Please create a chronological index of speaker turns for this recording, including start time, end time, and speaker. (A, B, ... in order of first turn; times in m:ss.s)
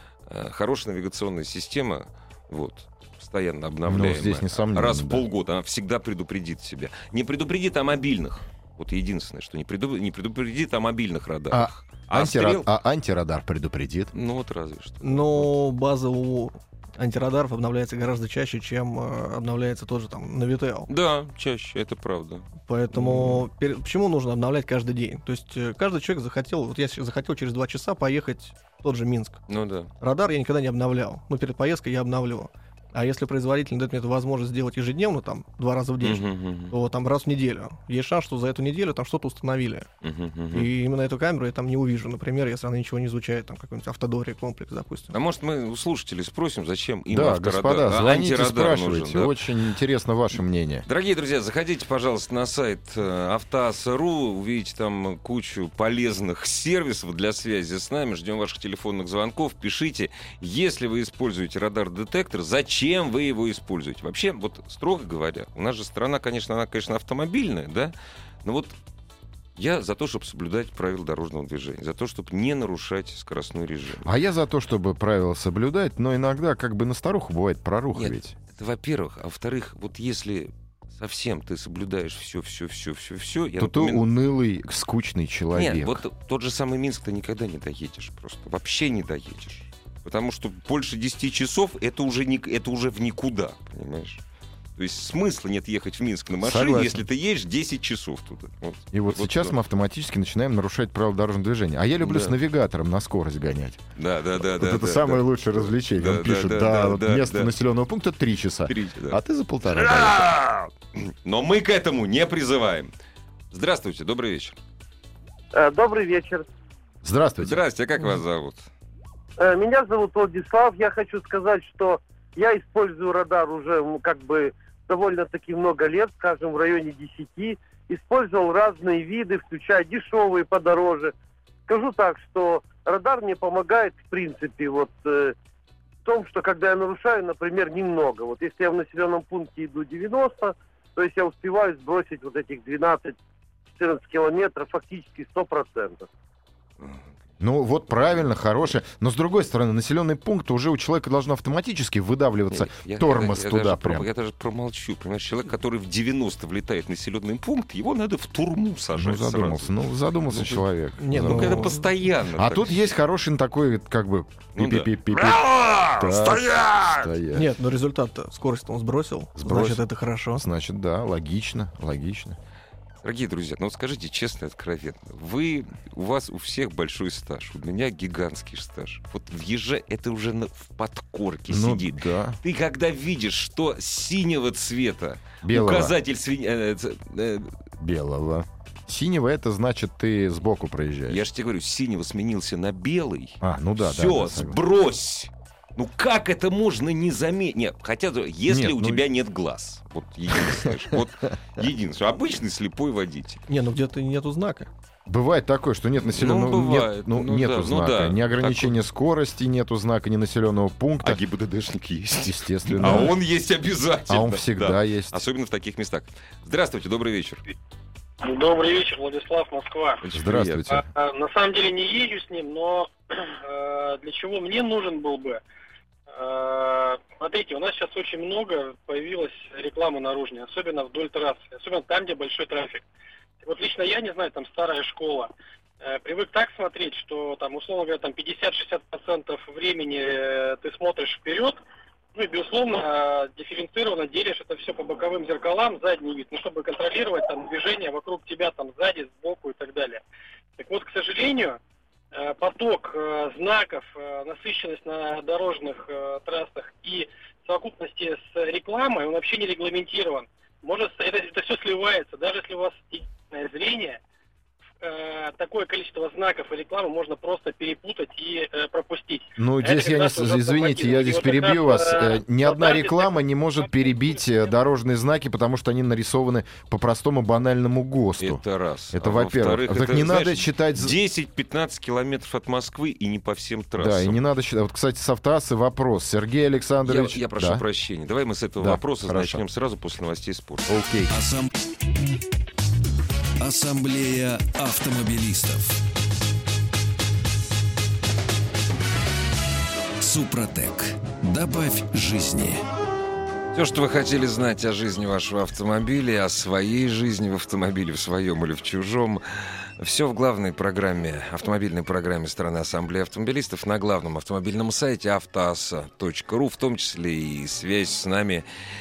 0:00.3-0:12.7 A
0:03.9-0:05.3 B
0:11.5-0:14.1 B
0:14.1-0:15.5 A
0:15.0-0:20.9 C
0:20.9-0:23.5 A
0:22.7-0:29.4 C
0:29.5-0:29.9 A
0:30.0-0:39.9 C
0:36.0-0:36.7 A
0:40.0-0:40.7 A
0:40.5-0:45.1 C
0:45.1-0:49.4 A
0:47.1-0:50.9 B
0:50.9-1:08.8 A
1:09.6-1:14.1 A
1:14.0-1:18.4 B
1:17.9-1:24.0 A
1:23.6-1:26.0 B
1:25.5-1:34.2 A
1:34.8-1:39.6 A
1:36.4-1:37.0 B
1:38.9-1:43.8 B
1:42.0-1:42.4 A
1:44.0-1:47.5 A
1:44.4-1:50.3 B
1:48.7-1:52.9 A
1:53.5-1:54.6 A
1:55.5-1:56.5 D
1:57.0-1:57.6 B
1:57.4-1:58.7 A
1:59.4-2:11.1 D
2:11.7-2:15.4 D
2:16.0-2:23.2 D
2:23.7-2:26.1 D
2:26.8-2:27.1 A
2:27.4-2:34.1 B
2:32.5-2:42.8 A
2:39.0-2:41.8 B
2:41.0-2:41.9 C
2:42.4-2:47.5 B
2:44.6-2:47.1 A
2:47.3-2:50.4 C
2:49.4-2:49.8 B
2:50.4-2:52.4 B
2:53.0-3:07.5 A
3:01.5-3:02.4 B
3:05.4-3:06.0 B
3:07.8-3:11.2 B
3:11.1-3:23.4 A
3:13.4-3:14.6 B
3:18.5-3:19.0 B
3:23.5-3:24.7 C
3:25.1-3:31.2 B
3:26.1-3:28.8 A
3:31.0-3:37.4 A
3:32.2-3:33.2 B
3:34.1-3:35.2 B
3:38.2-3:40.0 E
3:40.0-3:40.7 A
3:40.1-3:40.8 B
3:40.7-3:45.4 E
3:46.1-3:52.8 E
3:53.4-4:01.6 E
4:02.1-4:10.0 E
4:10.6-4:11.6 E
4:12.1-4:24.0 E
4:24.8-4:34.4 E
4:29.4-4:38.4 B
4:38.2-4:44.2 A
4:38.9-4:41.0 B
4:43.8-4:47.6 B
4:46.8-4:50.8 A
4:48.6-4:49.4 B
4:50.7-4:51.1 B
4:51.1-4:51.5 F
4:53.4-4:55.8 F
5:00.0-5:02.6 F
5:03.5-5:09.2 A
5:09.8-5:18.4 A